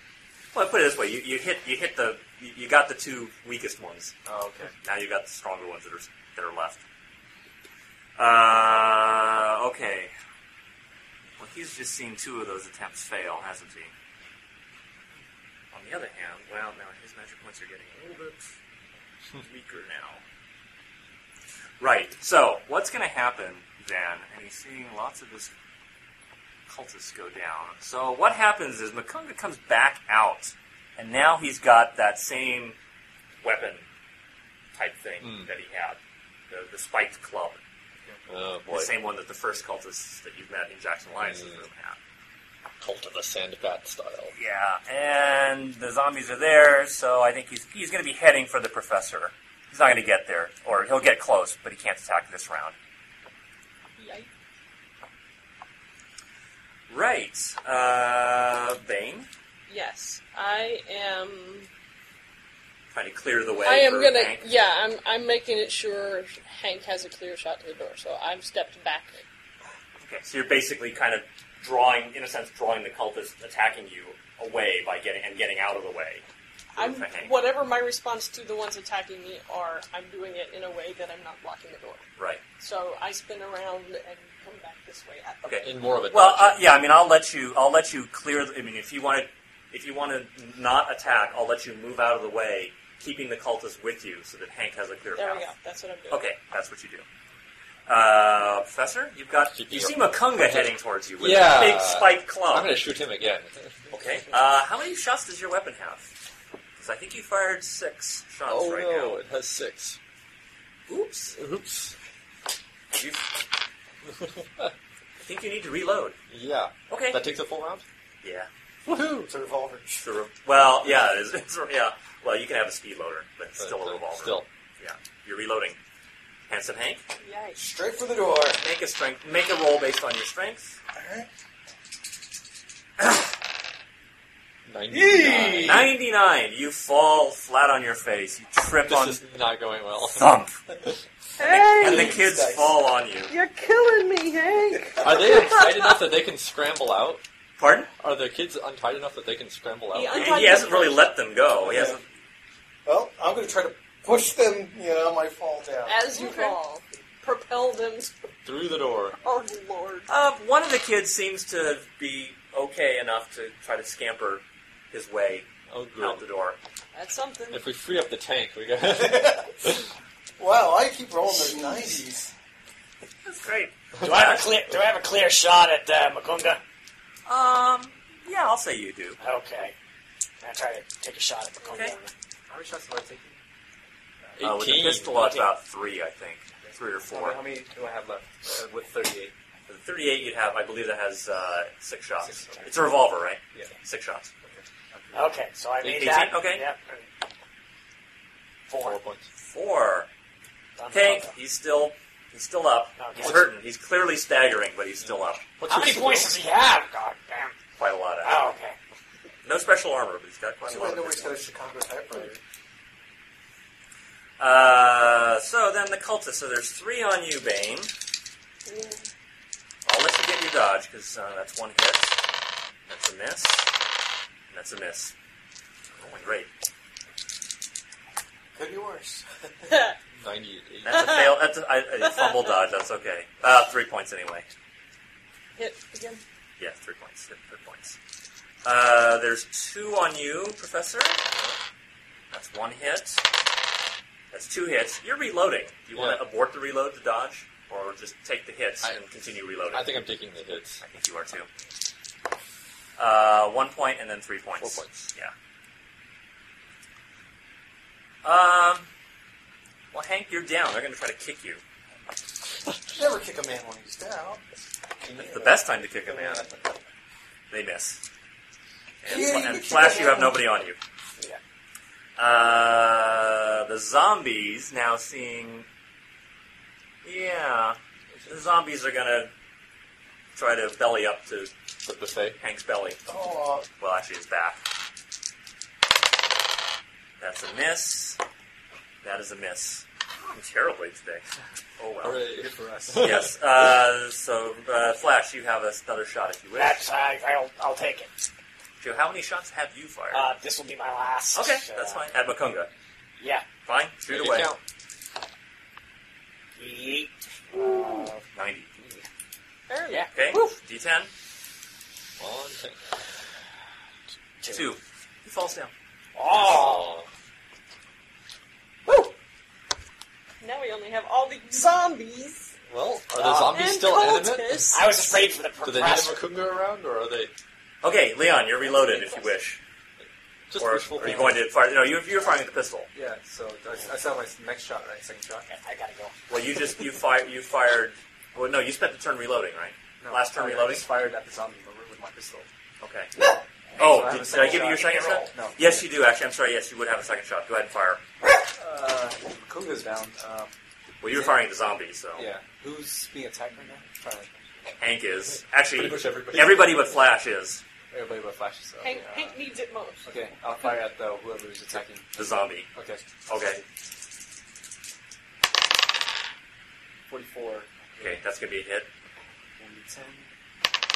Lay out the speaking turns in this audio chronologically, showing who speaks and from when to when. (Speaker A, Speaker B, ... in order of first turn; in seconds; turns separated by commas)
Speaker A: 0.5-4.1, Speaker B: 4.2-4.7, Speaker A: 4.8-6.8, Speaker A: 8.2-10.1, Speaker A: 11.4-13.9, Speaker A: 15.7-18.4, Speaker A: 19.4-20.2, Speaker A: 21.8-25.5, Speaker A: 26.7-32.8, Speaker A: 33.4-33.9, Speaker A: 34.8-36.0, Speaker C: 35.2-35.5, Speaker A: 36.5-37.6, Speaker C: 38.3-39.0, Speaker A: 38.7-42.0, Speaker C: 41.2-41.6, Speaker C: 42.8-44.3, Speaker A: 44.4-52.8, Speaker D: 54.0-54.3, Speaker A: 56.9-59.3, Speaker D: 59.7-61.7, Speaker A: 62.9-64.4, Speaker D: 63.6-69.2, Speaker A: 70.0-76.2, Speaker A: 76.8-77.3, Speaker D: 76.8-82.1, Speaker D: 82.6-85.7, Speaker A: 85.4-95.5, Speaker C: 85.6-86.6, Speaker D: 95.2-96.2, Speaker A: 96.1-97.0, Speaker A: 97.9-102.8, Speaker C: 99.5-103.8, Speaker A: 103.9-106.1, Speaker A: 106.8-109.2, Speaker C: 108.5-110.0, Speaker A: 110.9-111.4, Speaker C: 111.3-112.0, Speaker A: 112.9-113.2, Speaker C: 114.2-114.7, Speaker A: 115.2-116.2, Speaker C: 116.3-117.8, Speaker A: 116.9-117.2, Speaker A: 118.2-118.5, Speaker E: 118.9-120.1, Speaker A: 120.0-125.8, Speaker C: 123.6-124.5, Speaker A: 126.5-127.0, Speaker D: 127.2-127.6, Speaker E: 127.6-128.6, Speaker A: 128.6-130.8, Speaker E: 130.9-131.3, Speaker C: 134.7-135.9, Speaker E: 134.9-135.9, Speaker A: 135.6-139.2, Speaker C: 138.8-140.3, Speaker A: 140.1-140.6, Speaker D: 141.4-142.2, Speaker E: 141.4-142.8, Speaker A: 141.8-143.3, Speaker D: 143.3-146.0, Speaker C: 145.0-147.2, Speaker A: 147.6-147.9, Speaker C: 148.0-150.5, Speaker D: 149.9-151.1, Speaker A: 150.1-152.0, Speaker E: 151.7-152.0, Speaker E: 152.9-156.6, Speaker D: 155.9-158.1, Speaker C: 158.4-159.2, Speaker D: 159.2-160.1, Speaker A: 160.1-166.6, Speaker C: 165.7-166.2, Speaker D: 166.9-167.7, Speaker C: 167.5-169.9, Speaker E: 168.8-169.7, Speaker E: 170.4-172.3, Speaker A: 173.3-174.5, Speaker F: 174.0-176.6, Speaker A: 177.3-179.2, Speaker F: 179.2-179.8, Speaker F: 180.4-182.1, Speaker A: 181.7-182.0, Speaker B: 182.5-183.4, Speaker C: 184.4-185.4, Speaker A: 184.4-187.4, Speaker B: 186.6-189.3, Speaker A: 189.7-194.3, Speaker B: 192.2-192.8, Speaker B: 194.5-195.4, Speaker F: 195.1-197.1, Speaker A: 195.8-196.6, Speaker F: 198.7-199.0, Speaker C: 198.8-199.3, Speaker A: 199.4-200.1, Speaker F: 200.8-201.3, Speaker A: 200.9-205.5, Speaker F: 203.0-203.5, Speaker C: 205.6-206.4, Speaker F: 205.6-207.6, Speaker A: 207.8-208.6, Speaker F: 208.2-208.8, Speaker A: 209.4-211.4, Speaker E: 210.7-212.4, Speaker A: 214.4-217.9, Speaker D: 218.7-219.1, Speaker A: 219.9-222.2, Speaker A: 222.9-223.7, Speaker A: 224.5-225.1, Speaker A: 226.0-226.5, Speaker E: 228.6-229.5, Speaker D: 229.7-229.9, Speaker C: 230.2-231.3, Speaker A: 230.8-234.5, Speaker D: 231.0-231.3, Speaker D: 235.6-236.2, Speaker A: 236.6-238.0, Speaker A: 238.6-241.2, Speaker A: 242.3-243.2, Speaker A: 244.3-250.0, Speaker C: 245.9-246.2, Speaker C: 249.7-250.8, Speaker A: 250.8-251.5, Speaker A: 253.0-255.3, Speaker C: 254.6-255.1, Speaker A: 258.2-258.9, Speaker A: 259.9-261.6, Speaker E: 262.9-264.5, Speaker E: 265.0-266.7, Speaker A: 265.2-266.5, Speaker A: 267.5-268.0, Speaker A: 269.0-270.8, Speaker E: 269.1-270.4, Speaker A: 272.2-275.7, Speaker A: 277.0-279.3, Speaker A: 280.4-281.5, Speaker C: 281.8-282.4, Speaker A: 282.4-283.0, Speaker E: 283.1-283.7, Speaker A: 283.8-284.6, Speaker A: 287.2-288.2, Speaker A: 289.0-291.2, Speaker A: 291.8-292.2, Speaker C: 292.0-293.3, Speaker B: 292.3-293.2, Speaker A: 293.0-296.8, Speaker F: 296.6-298.2, Speaker A: 298.8-300.3, Speaker F: 300.1-302.0, Speaker A: 301.3-302.7, Speaker F: 303.2-303.4, Speaker A: 303.7-304.5, Speaker C: 304.1-304.6, Speaker F: 306.6-308.2, Speaker A: 308.3-308.7, Speaker D: 309.7-310.5, Speaker F: 309.9-310.6, Speaker A: 310.1-311.1, Speaker C: 312.2-312.8, Speaker F: 314.4-314.7, Speaker A: 314.5-315.7, Speaker F: 316.1-317.0, Speaker C: 316.3-317.1, Speaker F: 318.9-319.1, Speaker D: 320.4-322.5, Speaker C: 322.7-325.1, Speaker F: 323.1-323.6, Speaker D: 323.5-325.1, Speaker F: 324.7-326.2, Speaker C: 325.6-327.3, Speaker A: 327.8-329.6, Speaker F: 328.9-329.3, Speaker C: 330.5-331.5, Speaker A: 330.6-332.9, Speaker B: 332.9-335.5, Speaker F: 335.5-336.2, Speaker A: 336.3-340.9, Speaker B: 340.0-342.5, Speaker A: 342.8-343.2, Speaker A: 343.8-348.0, Speaker B: 343.8-345.8, Speaker F: 344.4-345.3, Speaker B: 348.6-350.5, Speaker A: 351.0-352.3, Speaker B: 351.1-351.4, Speaker B: 352.1-354.4, Speaker A: 354.8-357.6, Speaker C: 355.8-356.5, Speaker B: 355.9-356.7, Speaker B: 357.9-359.4, Speaker D: 358.8-360.1, Speaker B: 360.1-362.2, Speaker A: 362.1-362.7, Speaker B: 362.7-363.6, Speaker A: 363.3-363.6, Speaker B: 367.1-368.2, Speaker A: 368.0-368.9, Speaker B: 369.6-370.3